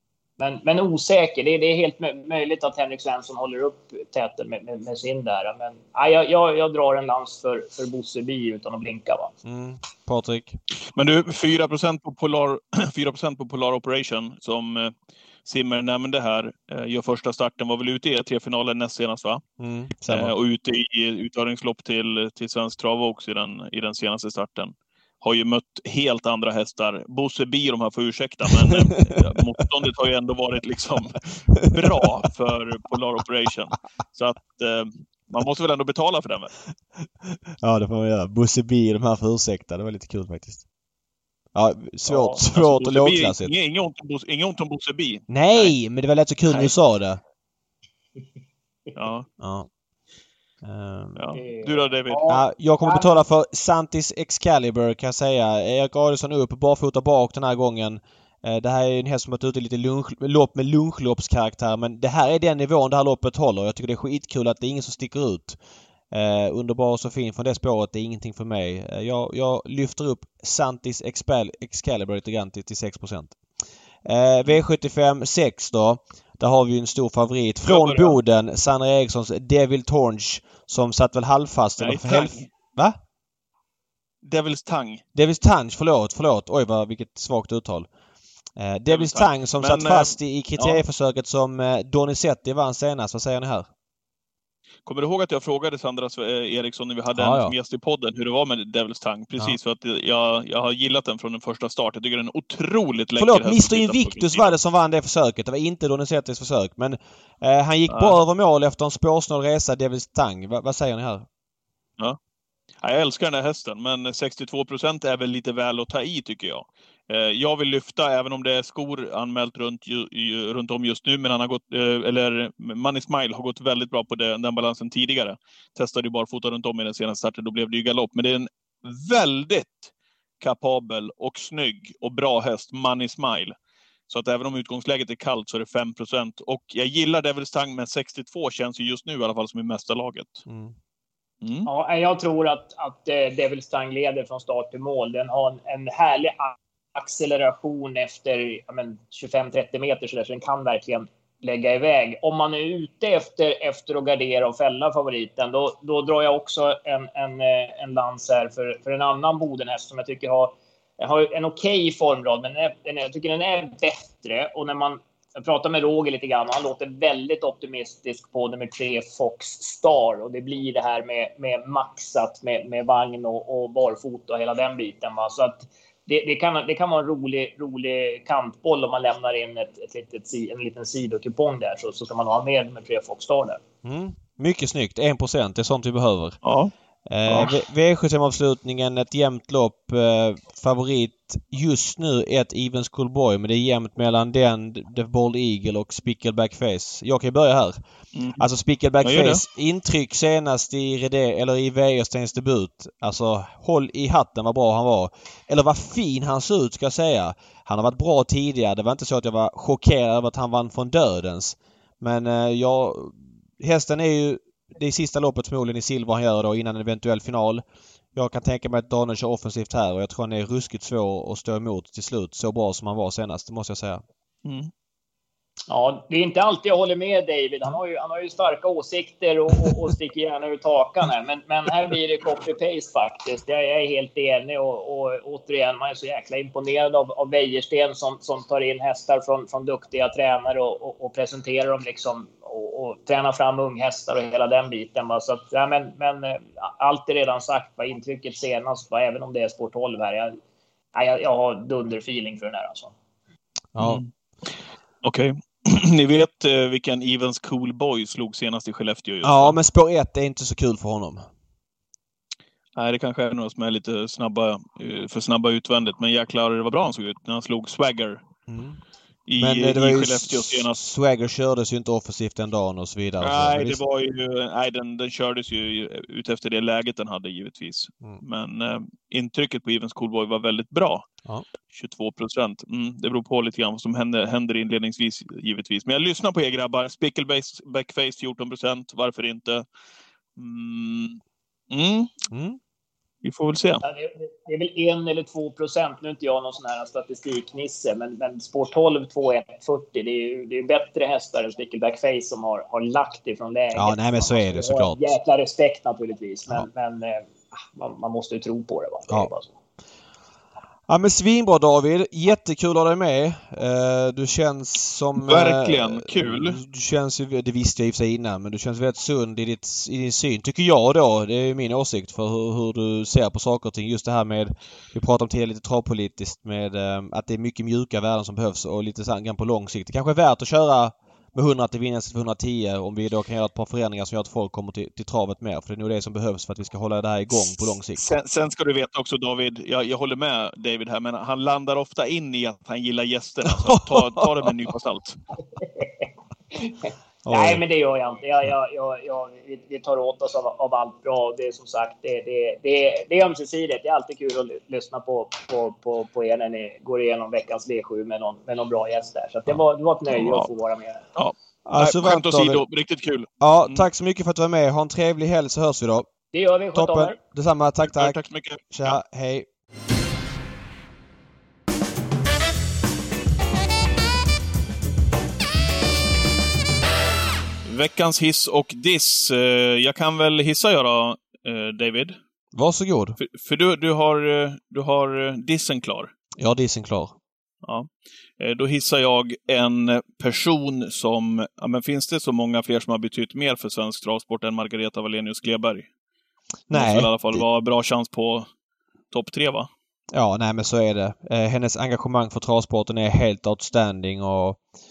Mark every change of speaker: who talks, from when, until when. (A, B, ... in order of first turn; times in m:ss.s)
0:00.4-0:09.3 A
0:09.4-0:10.6 B
0:10.9-0:14.9 C
0:15.4-0:19.4 C
0:19.6-0:20.3 B
0:20.1-0:36.5 C
0:31.5-0:32.0 B
0:37.2-0:40.6 B
0:41.5-0:43.5 B
0:42.1-0:42.4 A
0:42.5-0:45.7 C
0:45.3-0:47.2 B
0:46.5-0:46.7 C
0:48.9-0:49.3 C
0:49.4-0:49.7 B
0:50.6-0:51.3 B
0:51.2-0:52.2 C
0:51.3-0:53.2 A
0:52.3-1:05.6 B
1:06.1-1:13.4 B
1:14.0-1:23.0 B
1:17.6-1:18.2 C
1:21.8-1:22.5 C
1:24.2-1:25.0 C
1:25.1-1:27.9 B
1:28.6-1:33.7 B
1:28.9-1:30.8 C
1:34.8-1:44.6 C
1:37.1-1:37.5 B
1:43.2-1:51.3 B
1:47.9-1:48.2 C
1:52.8-2:13.5 C
2:14.1-2:20.4 C
2:20.5-2:20.7 B
2:21.4-2:21.7 C
2:21.6-3:03.6 A
3:03.8-3:06.4 B
3:06.4-3:06.7 C
3:07.1-3:17.8 B
3:07.2-3:07.5 C
3:18.1-3:18.4 C
3:18.4-3:37.6 B
3:19.0-3:19.4 C
3:38.1-3:44.0 B
3:44.4-3:44.7 C
3:45.7-4:10.3 A
4:10.9-4:12.9 A
4:13.7-4:14.0 B
4:13.8-4:19.6 C
4:19.2-4:21.2 B
4:22.8-4:28.2 C
4:28.5-4:28.8 B
4:29.3-4:30.8 C
4:29.4-4:33.8 B
4:33.2-4:41.1 C
4:41.7-4:49.7 C
4:50.4-4:51.2 C
4:51.7-4:52.1 C
4:52.3-4:52.6 B
4:53.2-4:53.8 C
4:53.8-5:09.5 A
5:03.7-5:05.1 B
5:10.9-5:38.0 B
5:15.2-5:16.6 C
5:37.9-5:45.2 C
5:43.4-5:44.4 B
5:45.6-6:01.0 A
5:47.2-5:47.6 B
6:00.1-6:00.5 C
6:01.2-6:03.8 C
6:01.6-6:02.6 B
6:03.4-6:06.1 B
6:06.3-6:07.2 A
6:06.7-6:08.2 B
6:07.8-6:09.0 C
6:08.7-6:09.5 B
6:17.6-6:22.2 C
6:22.5-6:23.2 B
6:23.2-6:26.1 C
6:26.4-6:27.1 B
6:27.6-6:35.9 C
6:36.7-6:37.4 B
6:36.7-6:38.5 C
6:39.1-6:39.7 C
6:40.1-6:44.6 B